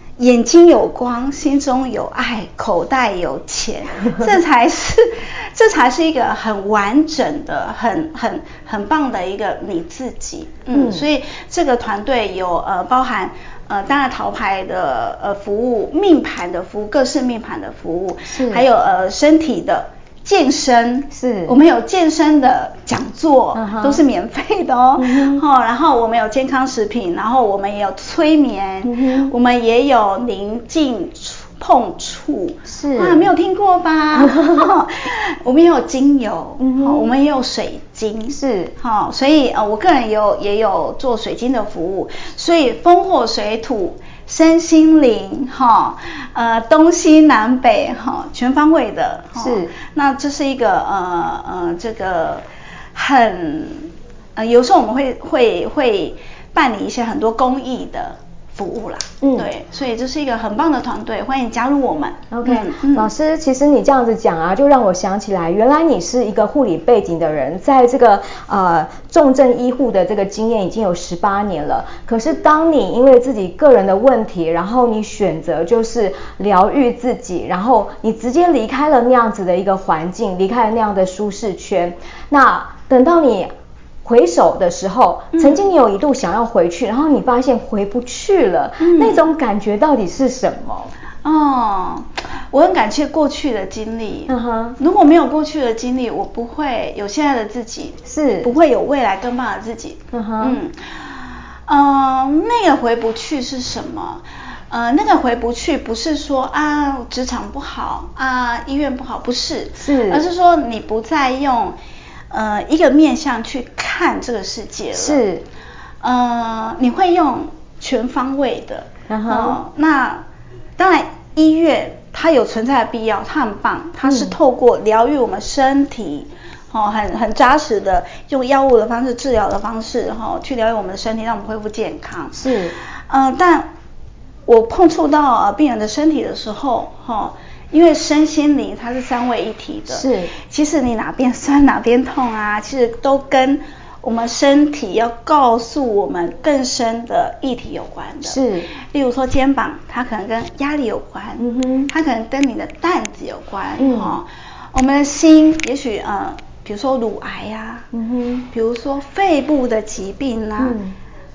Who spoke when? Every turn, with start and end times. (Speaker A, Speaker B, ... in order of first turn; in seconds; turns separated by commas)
Speaker A: 0.2-63.1, Speaker B: 10.7-11.0, Speaker B: 18.3-18.6, Speaker B: 21.1-21.6, Speaker B: 23.5-24.0, Speaker B: 25.0-25.4, Speaker B: 28.9-29.3, Speaker B: 32.6-33.3, Speaker B: 34.1-34.7, Speaker B: 36.6-37.1, Speaker B: 38.3-38.7, Speaker B: 49.4-49.7, Speaker B: 59.2-59.5, Speaker B: 62.3-83.5, Speaker B: 84.0-90.9, Speaker A: 85.3-85.6, Speaker A: 88.8-89.2, Speaker A: 91.2-111.8, Speaker B: 94.3-94.8, Speaker B: 98.1-98.5, Speaker B: 100.1-100.6, Speaker B: 109.8-110.2, Speaker A: 112.3-115.2, Speaker B: 114.9-115.4, Speaker A: 116.0-120.2, Speaker B: 119.1-119.6, Speaker A: 120.8-133.7, Speaker B: 124.0-124.3, Speaker B: 132.3-132.8, Speaker A: 134.5-157.9, Speaker B: 139.9-140.3, Speaker B: 148.2-148.7, Speaker B: 151.4-151.9, Speaker B: 153.8-154.2, Speaker B: 157.9-158.5, Speaker A: 158.5-160.8, Speaker B: 160.6-160.9